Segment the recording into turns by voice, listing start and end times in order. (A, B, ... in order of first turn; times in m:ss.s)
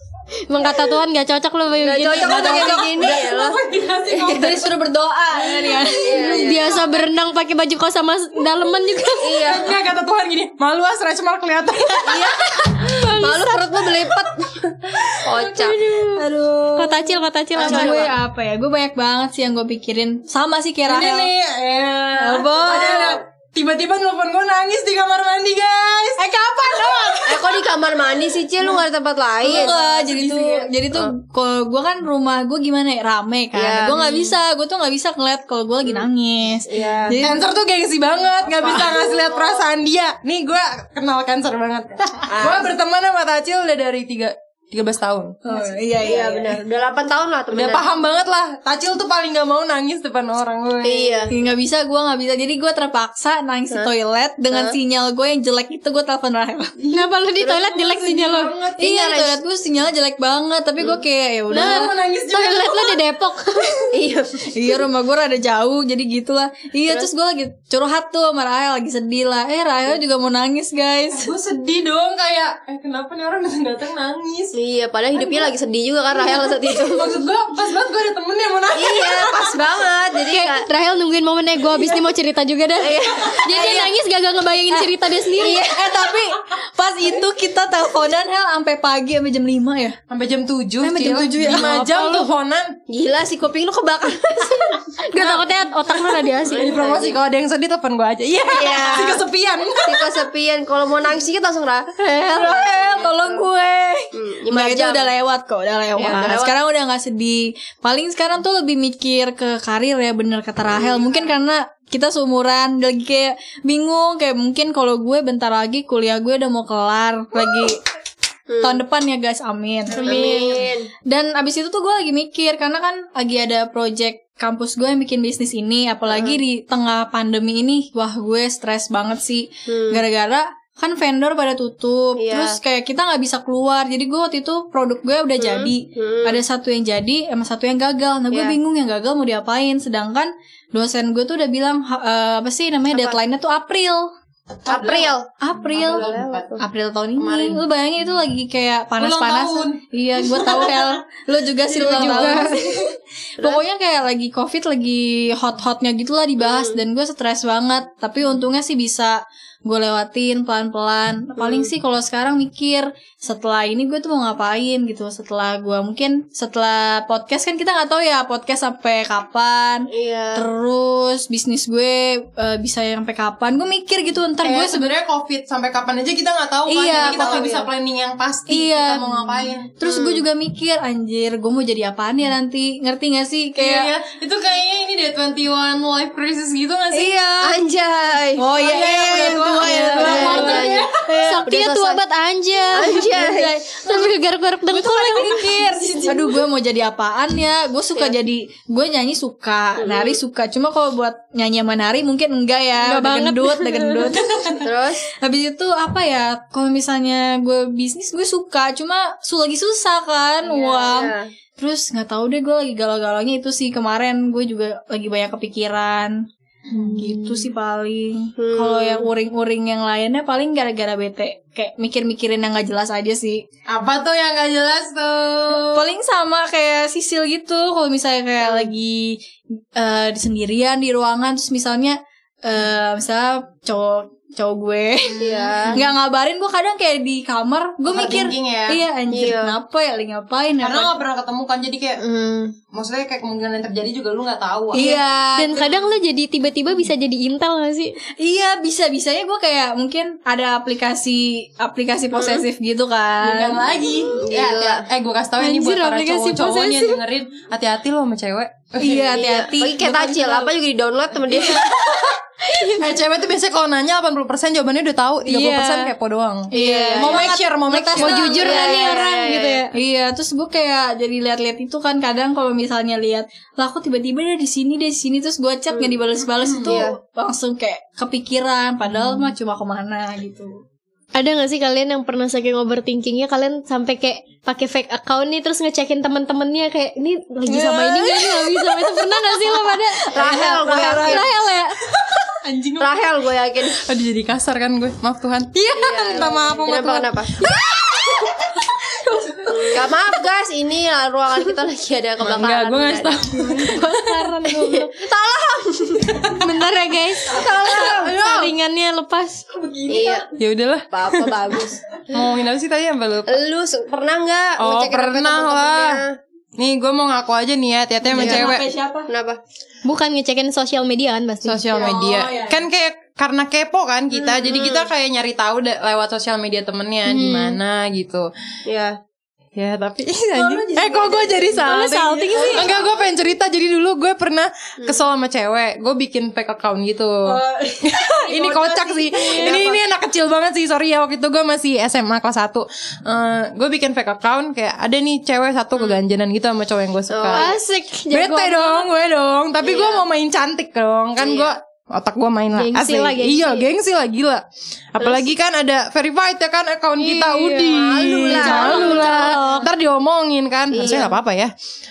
0:00.5-0:02.9 A
0:01.8-0:03.6 B
0:02.2-0:03.4 C
0:02.2-0:04.7 D
0:04.1-0:04.6 B
0:04.2-0:06.6 C
0:05.6-0:06.9 D
0:06.0-0:06.8 B
0:06.2-0:09.5 A
0:09.2-0:09.8 B
0:09.4-0:12.4 D
0:12.1-0:15.8 B
0:12.8-0:13.8 A
0:15.3-0:16.2 A
0:16.2-0:21.3 C
0:16.8-0:18.1 A
0:17.6-0:18.1 B
0:20.8-0:26.2 D
0:22.2-0:23.2 C
0:26.2-0:27.6 C
0:26.8-0:27.2 D
0:27.3-0:29.8 B
0:29.4-0:37.4 C
0:29.5-0:30.7 D
0:33.5-0:34.4 B
0:36.7-0:37.2 B
0:37.2-0:45.4 D
0:38.6-0:39.6 B
0:42.3-0:42.7 B
0:45.4-0:46.6 C
0:45.6-0:47.9 B
0:47.5-0:51.3 D
0:50.8-0:51.3 B
0:51.3-0:56.7 C
0:54.5-0:54.8 B
0:56.8-0:59.2 D
0:56.9-0:58.5 A
0:58.8-1:01.9 C
0:59.0-0:59.3 B
1:01.5-1:03.0 D
1:01.6-1:03.9 A
1:03.9-1:04.8 B
1:04.5-1:11.3 C
1:11.1-1:14.6 D
1:14.5-1:17.1 B
1:15.2-1:15.5 D
1:16.1-1:19.6 D
1:18.8-1:20.7 B
1:20.3-1:25.6 A
1:22.8-1:23.9 B
1:25.4-1:26.1 B
1:25.4-1:30.0 C
1:30.1-1:32.8 D
1:30.8-1:31.8 C
1:31.5-1:32.3 A
1:32.9-1:34.8 B
1:35.0-1:36.8 A
1:35.2-1:35.5 D
1:36.4-1:40.2 D
1:36.4-1:37.2 B
1:38.4-1:39.2 B
1:39.8-1:43.5 B
1:42.0-1:57.8 C
1:44.1-1:45.1 B
1:46.0-1:46.5 B
1:50.7-1:51.3 B
1:58.5-1:58.8 B
1:58.6-2:24.1 C
2:00.0-2:00.9 B
2:06.1-2:06.4 B
2:09.7-2:10.0 B
2:12.2-2:12.6 B
2:15.4-2:16.4 B
2:18.3-2:18.6 B
2:22.9-2:23.2 B
2:24.6-2:25.1 D
2:24.7-2:26.6 B
2:25.4-2:26.1 C
2:25.7-2:26.6 D
2:26.6-2:32.8 C
2:27.2-2:27.6 D
2:29.0-2:30.9 D
2:31.7-2:32.5 B
2:31.7-2:32.6 D
2:31.9-2:32.5 A
2:33.4-2:54.9 C
2:36.4-2:36.8 B
2:41.4-2:41.7 B
2:49.9-2:50.5 B
2:54.4-2:59.8 D
2:56.7-2:57.5 C
2:56.8-2:57.7 B
2:58.5-3:03.9 C
2:59.8-3:00.2 B
3:03.6-3:07.2 D
3:07.0-3:07.6 C
3:07.4-3:10.9 B
3:08.4-3:11.5 C
3:08.6-3:10.9 D
3:11.1-3:16.1 A
3:11.5-3:12.0 B
3:12.7-3:13.6 B
3:14.7-3:24.7 C
3:19.8-3:20.2 B
3:22.8-3:24.2 A
3:24.6-3:25.1 B
3:25.2-3:36.3 C
3:30.4-3:31.3 B
3:36.7-3:37.0 D
3:36.8-3:43.5 C
3:38.4-3:39.1 B
3:43.7-3:45.9 D
3:45.6-3:49.2 C
3:48.4-3:48.7 B
3:49.8-4:01.0 C
3:55.2-3:55.8 B
3:55.2-3:55.8 D
3:57.8-3:58.8 D
3:59.1-3:59.6 B
4:00.6-4:02.0 D
4:02.0-4:02.6 B
4:02.7-4:04.8 D
4:04.7-4:05.9 C
4:04.8-4:08.0 A
4:08.2-4:13.6 C
4:12.1-4:12.4 B
4:13.2-4:19.2 D
4:14.3-4:14.9 B
4:15.4-4:16.9 A
4:16.0-4:16.4 C
4:18.8-4:20.5 C
4:19.1-4:21.7 B
4:21.3-4:22.8 C
4:21.4-4:22.0 D
4:22.7-4:29.6 D
4:25.3-4:25.9 C
4:26.5-4:29.1 C
4:26.5-4:27.3 B
4:27.9-4:29.8 A
4:28.3-4:29.6 B
4:29.7-4:40.6 C
4:35.7-4:36.0 B
4:36.4-4:36.8 D
4:36.6-4:37.0 B
4:41.2-4:51.7 A
4:47.5-4:51.6 C
4:50.1-4:51.3 B
4:52.4-4:53.0 D
4:52.8-4:53.8 B
4:53.8-4:57.1 D
4:55.6-4:56.4 C
4:55.7-4:57.4 B
4:57.4-4:59.9 C
4:59.5-5:03.2 B
5:02.2-5:04.4 D
5:03.4-5:04.9 A
5:04.5-5:06.4 B
5:06.2-5:06.5 D
5:06.3-5:09.4 A
5:07.3-5:08.0 C
5:07.4-5:08.1 B
5:07.4-5:08.5 D
5:09.5-5:10.3 C
5:09.9-5:10.3 B
5:10.4-5:11.4 D
5:10.9-5:11.8 B
5:12.1-5:13.4 D
5:13.3-5:16.2 B
5:14.6-5:16.0 D
5:16.6-5:18.6 D
5:18.0-5:19.1 C
5:18.2-5:18.5 B
5:19.1-5:19.4 B
5:19.8-5:21.8 A
5:21.4-5:28.3 D
5:21.7-5:22.6 C
5:24.1-5:24.9 B
5:27.1-5:27.6 A
5:28.7-5:29.0 B
5:29.6-5:47.5 D
5:30.3-5:32.8 C
5:31.6-5:32.7 A
5:37.3-5:39.8 C
5:47.1-5:47.5 B
5:47.3-5:48.9 A
5:48.1-6:01.5 D
5:49.6-5:50.0 B
5:51.2-5:51.6 B
5:52.6-5:53.7 A
5:55.0-5:55.3 B
5:57.0-5:59.7 A
5:57.7-5:59.5 B
6:00.7-6:01.2 B